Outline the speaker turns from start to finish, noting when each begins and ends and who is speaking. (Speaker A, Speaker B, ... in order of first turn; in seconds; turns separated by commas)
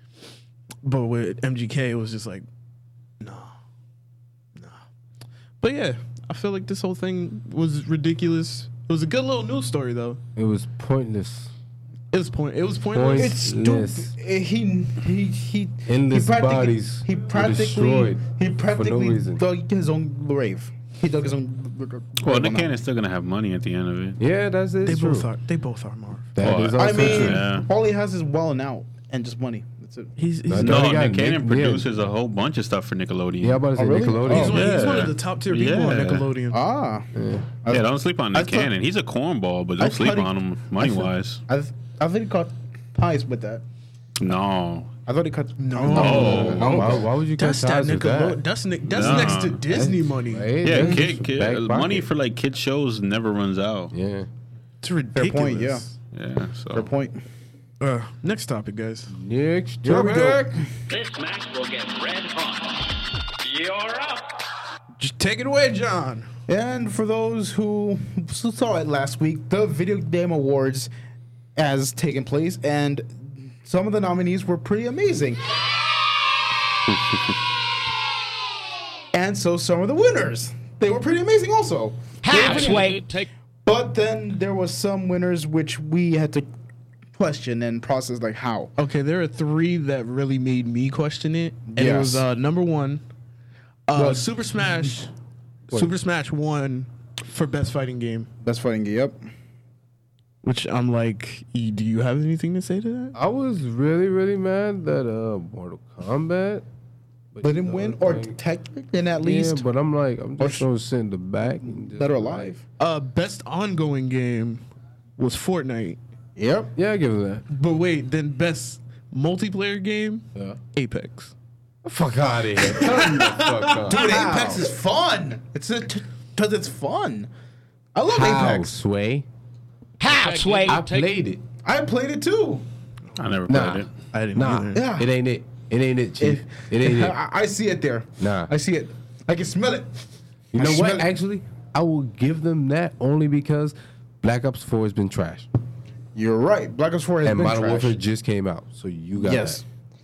Speaker A: 0.8-2.4, Speaker A: 3.2-3.5, Speaker A: 4.5-4.8, Speaker A: 5.6-10.2, Speaker B: 10.3-11.5, Speaker A: 12.1-13.4, Speaker B: 12.9-14.1, Speaker C: 13.1-22.7, Speaker B: 15.9-19.4, Speaker D: 22.2-24.2, Speaker B: 24.2-25.3, Speaker A: 24.8-26.3, Speaker B: 26.4-27.4, Speaker D: 26.4-27.7, Speaker C: 26.7-30.1, Speaker A: 30.2-30.9, Speaker B: 30.4-32.0, Speaker D: 30.5-33.6, Speaker B: 33.4-34.7, Speaker C: 33.7-34.6, Speaker A: 34.2-36.6, Speaker D: 34.4-36.3, Speaker C: 36.5-37.1, Speaker B: 37.1-37.5, Speaker C: 37.6-38.7, Speaker D: 37.7-41.4, Speaker C: 39.8-43.6, Speaker D: 44.2-44.9, Speaker C: 45.0-47.1, Speaker A: 45.6-50.5, Speaker D: 45.9-46.8, Speaker B: 45.9-52.1, Speaker D: 48.9-49.6, Speaker D: 50.6-53.9, Speaker C: 50.8-51.0, Speaker B: 53.9-54.3, Speaker A: 54.8-55.9, Speaker C: 55.1-55.9, Speaker D: 56.1-56.9, Speaker C: 56.7-57.2, Speaker A: 57.8-59.1, Speaker B: 59.1-60.5, Speaker C: 59.8-60.6, Speaker A: 59.9-60.1, Speaker E: 60.9-62.8, Speaker E: 63.4-64.3, Speaker A: 65.0-66.3, Speaker C: 66.5-70.9, Speaker C: 71.5-75.4, Speaker C: 79.1-82.9, Speaker F: 82.2-83.2, Speaker E: 82.7-83.2, Speaker C: 83.6-86.5, Speaker C: 87.1-88.7, Speaker A: 88.8-93.0, Speaker C: 91.7-92.2, Speaker A: 93.9-95.1, Speaker C: 93.9-94.3, Speaker A: 95.7-98.3, Speaker C: 98.4-99.2, Speaker A: 100.4-103.1, Speaker B: 103.1-106.6, Speaker B: 107.3-108.4, Speaker C: 107.4-109.6, Speaker B: 109.2-112.5, Speaker C: 110.4-110.7, Speaker C: 111.6-112.6, Speaker A: 112.8-114.6, Speaker A: 115.2-116.0, Speaker C: 116.3-116.7, Speaker B: 116.8-117.4, Speaker A: 117.5-121.3, Speaker B: 121.8-124.5, Speaker A: 122.6-124.7, Speaker C: 123.9-127.3, Speaker C: 127.9-128.7, Speaker B: 128.1-129.3, Speaker F: 130.0-131.1, Speaker E: 130.3-130.7, Speaker B: 130.6-131.4, Speaker C: 131.6-132.6, Speaker D: 133.2-133.9, Speaker B: 133.5-137.2, Speaker A: 134.1-134.8, Speaker C: 134.7-135.1, Speaker C: 136.2-139.9, Speaker B: 138.2-138.5, Speaker C: 140.5-141.1, Speaker B: 140.5-145.5, Speaker C: 146.1-147.9, Speaker B: 147.2-149.6, Speaker C: 149.2-149.6